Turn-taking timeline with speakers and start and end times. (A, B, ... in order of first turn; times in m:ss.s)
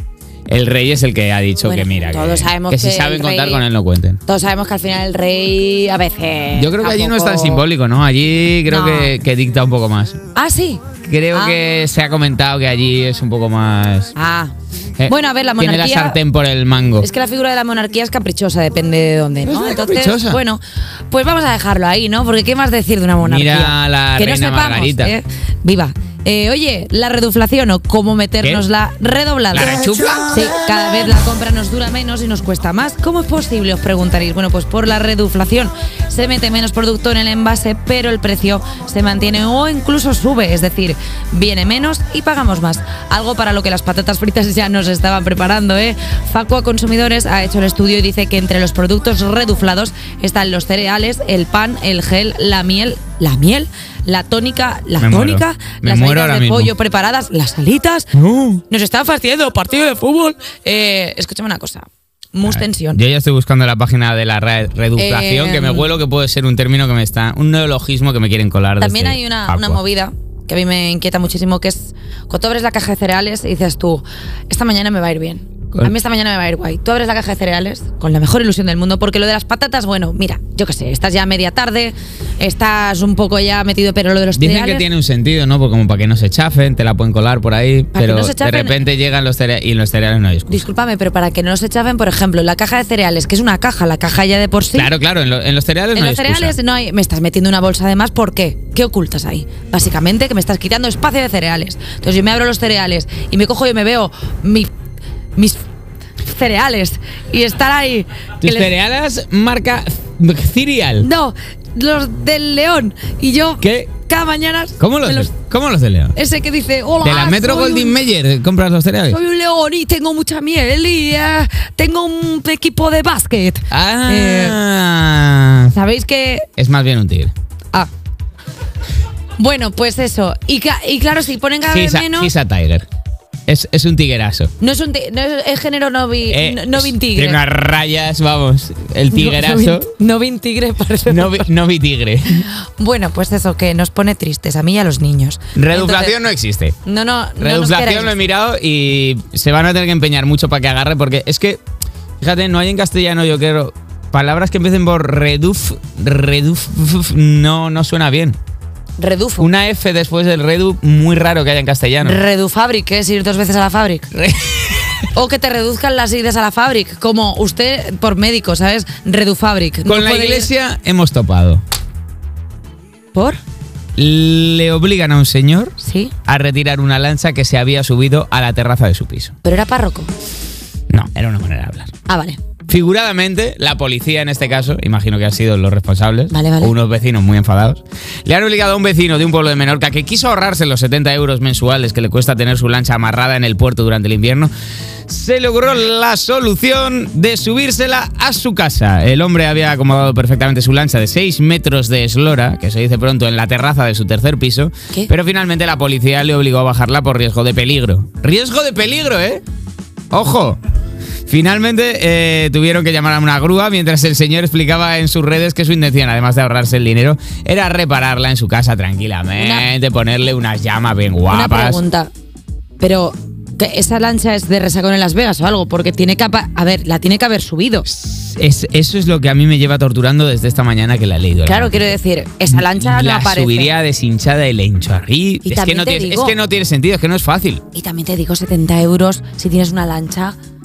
0:00.5-0:04.2 A
0:01.6-0:03.6 B
0:04.3-0:07.6 B
0:06.5-0:10.2 A
0:08.7-0:09.1 B
0:10.3-0:11.6 B
0:11.0-0:14.1 A
0:14.2-0:14.5 B
0:15.0-0:17.1 A
0:15.0-0:16.2 B
0:17.0-0:58.1 B
0:19.4-0:20.4 A
0:23.2-0:25.1 A
0:29.5-0:30.6 A
0:55.0-0:56.7 A
0:58.1-0:58.6 A
0:58.7-1:03.0 B
1:02.4-1:09.8 A
1:05.0-1:05.9 B
1:08.8-1:24.9 B
1:24.4-1:30.6 A
1:27.9-1:28.8 B
1:30.5-1:34.9 B
1:34.7-1:36.6 A
1:36.0-1:44.7 B
1:46.2-1:48.7 B
1:48.4-1:51.1 A
1:51.0-1:55.3 B
1:53.6-1:53.9 A
1:54.8-1:56.1 A
1:56.1-1:58.0 B
1:57.0-1:59.2 A
1:59.1-2:04.6 B
2:03.7-2:05.7 A
2:05.7-2:06.5 B
2:06.6-2:07.3 A
2:09.4-2:12.3 B
2:11.7-2:12.9 A
2:13.5-2:14.5 A
2:14.6-2:17.4 B
2:16.3-2:19.9 A
2:19.1-2:21.5 B
2:21.1-2:22.4 A
2:22.3-2:26.1 B
2:25.6-2:26.8 A
2:26.8-2:28.2 B
2:27.4-2:31.6 A
2:32.2-2:38.4 A
2:39.0-2:39.5 B
2:39.4-2:42.2 A
2:42.0-2:44.1 B
2:44.1-2:44.9 A
2:45.1-2:50.5 B
2:49.9-2:51.6 A
2:53.1-2:53.4 B
2:54.0-2:55.8 A
2:55.8-2:56.1 B
2:56.3-2:59.3 A
2:59.4-3:00.1 B
3:00.9-3:01.9 A
3:02.1-3:02.4 B
3:02.7-3:14.5 A
3:06.3-3:06.7 B
3:15.1-3:29.4 A
3:30.1-3:30.6 A
3:31.3-3:41.8 A
3:39.4-3:39.7 B
3:41.3-3:42.1 B
3:42.8-3:47.9 B
3:47.9-3:52.0 A
3:51.4-3:53.7 B
3:52.5-3:57.6 A
3:55.4-3:56.4 B
3:57.7-4:00.4 B